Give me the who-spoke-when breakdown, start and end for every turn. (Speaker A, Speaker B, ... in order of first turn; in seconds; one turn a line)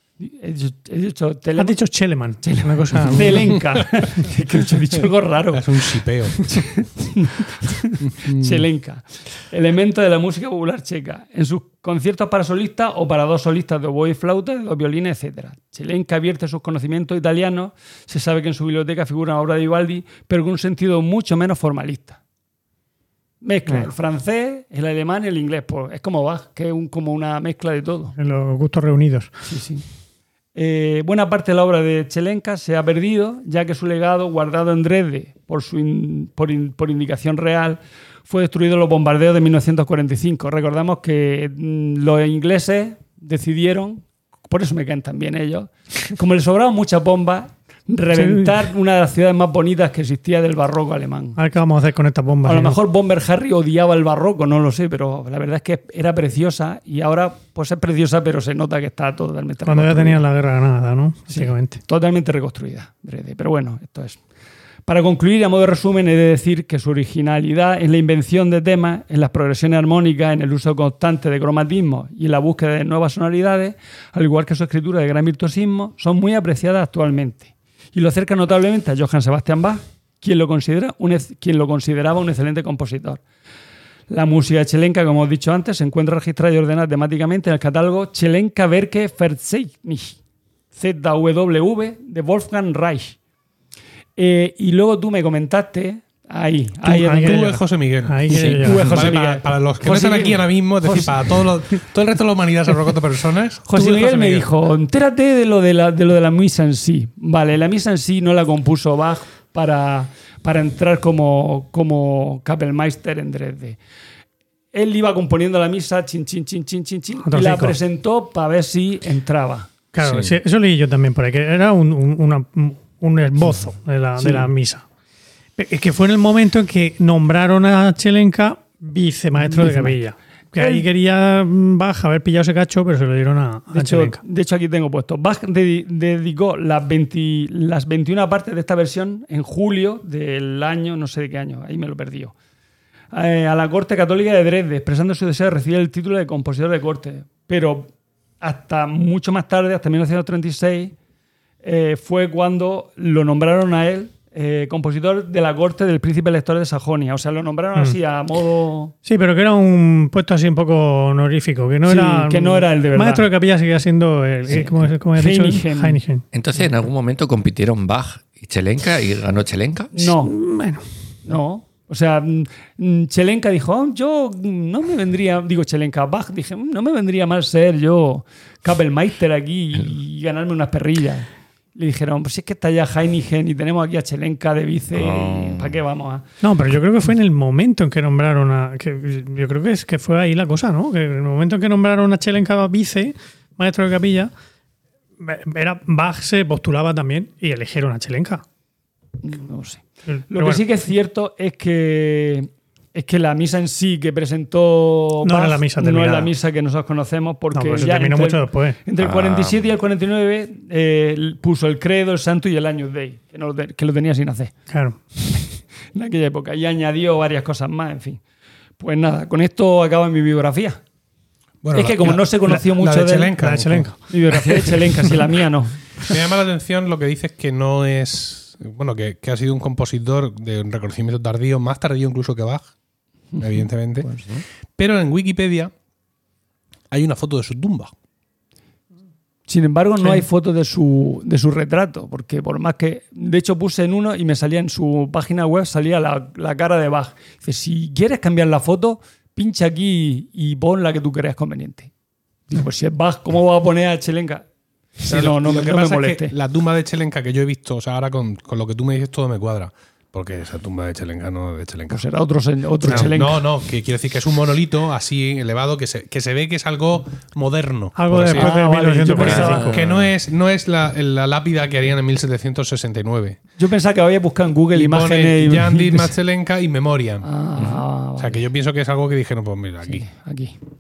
Speaker A: 0.2-1.8
Speaker B: 1.6-3.6
Speaker A: 2.4-5.8
Speaker C: 2.9-3.6
Speaker C: 5.5-6.7
Speaker A: 6.3-22.2
Speaker C: 8.0-8.6
Speaker A: 23.4-28.1
Speaker B: 28.2-29.5
Speaker A: 29.5-29.9
Speaker A: 30.5-51.4
Speaker B: 48.1-48.5
Speaker B: 51.4-52.8
Speaker A: 52.4-60.2
Speaker B: 59.6-61.8
Speaker A: 61.3-64.2
Speaker A: 64.9-83.2
Speaker A: 84.1-90.2
Speaker A: 90.7-93.2
Speaker A: 94.2-97.5
Speaker B: 96.8-99.2
Speaker C: 96.9-104.5
Speaker A: 98.3-101.5
Speaker A: 103.7-113.8
Speaker A: 114.7-119.7
Speaker B: 117.3-117.8
Speaker B: 119.9-124.8
Speaker C: 120.0-120.3
Speaker A: 124.2-124.5
Speaker B: 125.6-134.2
Speaker A: 129.4-130.0
Speaker A: 130.6-130.8
Speaker A: 133.7-142.3
Speaker A: 143.1-150.9
Speaker A: 151.6-158.9
Speaker B: 159.1-166.2
Speaker A: 161.8-163.3
Speaker A: 164.5-166.0
Speaker D: 166.3-169.9
Speaker A: 169.9-170.3
Speaker B: 170.0-170.9
Speaker A: 171.2-186.2
Speaker D: 184.9-185.8
Speaker B: 186.4-194.3
Speaker B: 195.2-198.4
Speaker A: 199.2-214.7
Speaker B: 200.1-200.6
Speaker B: 205.2-206.3
Speaker B: 207.5-208.8
Speaker D: 209.0-209.6
Speaker B: 214.7-215.5
Speaker A: 215.9-218.2
Speaker A: 218.8-220.8
Speaker C: 221.6-224.2
Speaker A: 221.7-223.4
Speaker B: 223.3-224.7
Speaker A: 224.1-225.9
Speaker C: 226.1-232.7
Speaker A: 233.3-234.2
Speaker C: 233.4-235.7
Speaker C: 236.9-237.9
Speaker A: 239.5-251.9
Speaker A: 252.5-254.5
Speaker A: 255.0-256.4
Speaker C: 255.1-262.1
Speaker A: 261.9-263.6
Speaker C: 262.8-268.6
Speaker B: 262.9-263.1
Speaker B: 268.0-269.7
Speaker A: 268.3-269.8
Speaker D: 269.2-270.1
Speaker C: 269.2-273.4
Speaker A: 273.6-276.1
Speaker C: 274.7-277.3
Speaker A: 277.2-278.4
Speaker D: 277.6-277.8
Speaker C: 278.2-280.1
Speaker A: 279.9-280.6